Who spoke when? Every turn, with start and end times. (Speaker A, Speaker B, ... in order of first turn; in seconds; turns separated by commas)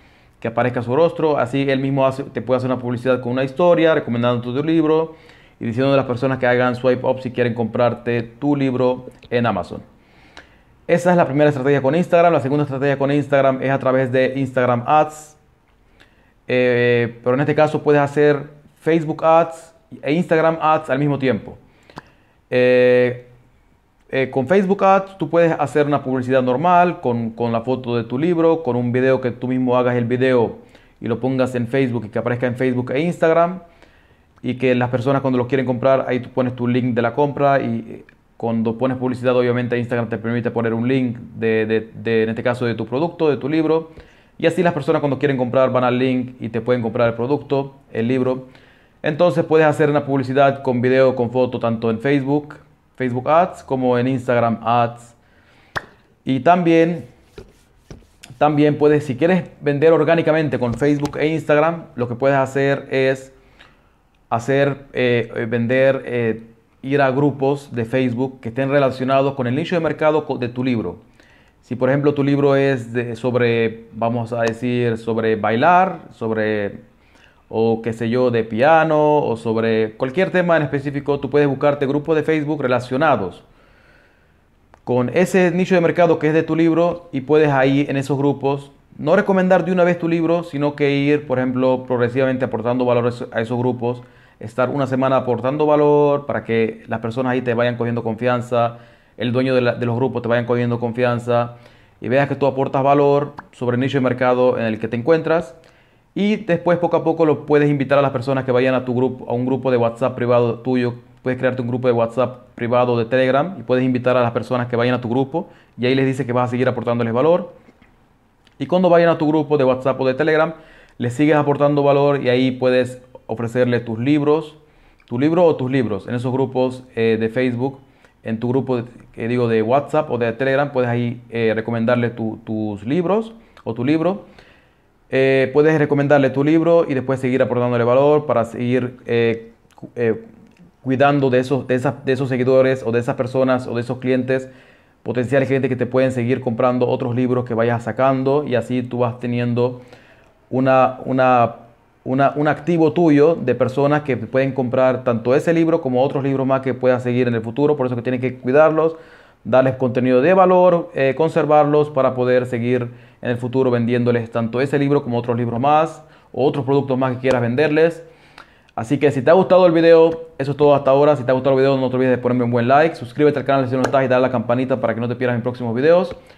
Speaker A: 0.4-9.8, Speaker A: 10.9-15.4, Speaker A: 16.5-21.6, Speaker A: 22.5-23.3, Speaker A: 24.1-33.6, Speaker A: 34.4-48.5, Speaker A: 49.0-55.1, Speaker A: 56.2-57.1, Speaker A: 58.4-63.3, Speaker A: 64.3-71.0, Speaker A: 71.6-76.8, Speaker A: 77.5-83.4, Speaker A: 84.8-105.5, Speaker A: 106.1-117.5, Speaker A: 118.6-134.2, Speaker A: 135.1-140.2, Speaker A: 140.8-144.5, Speaker A: 145.0-149.8, Speaker A: 150.5-168.1, Speaker A: 168.8-176.2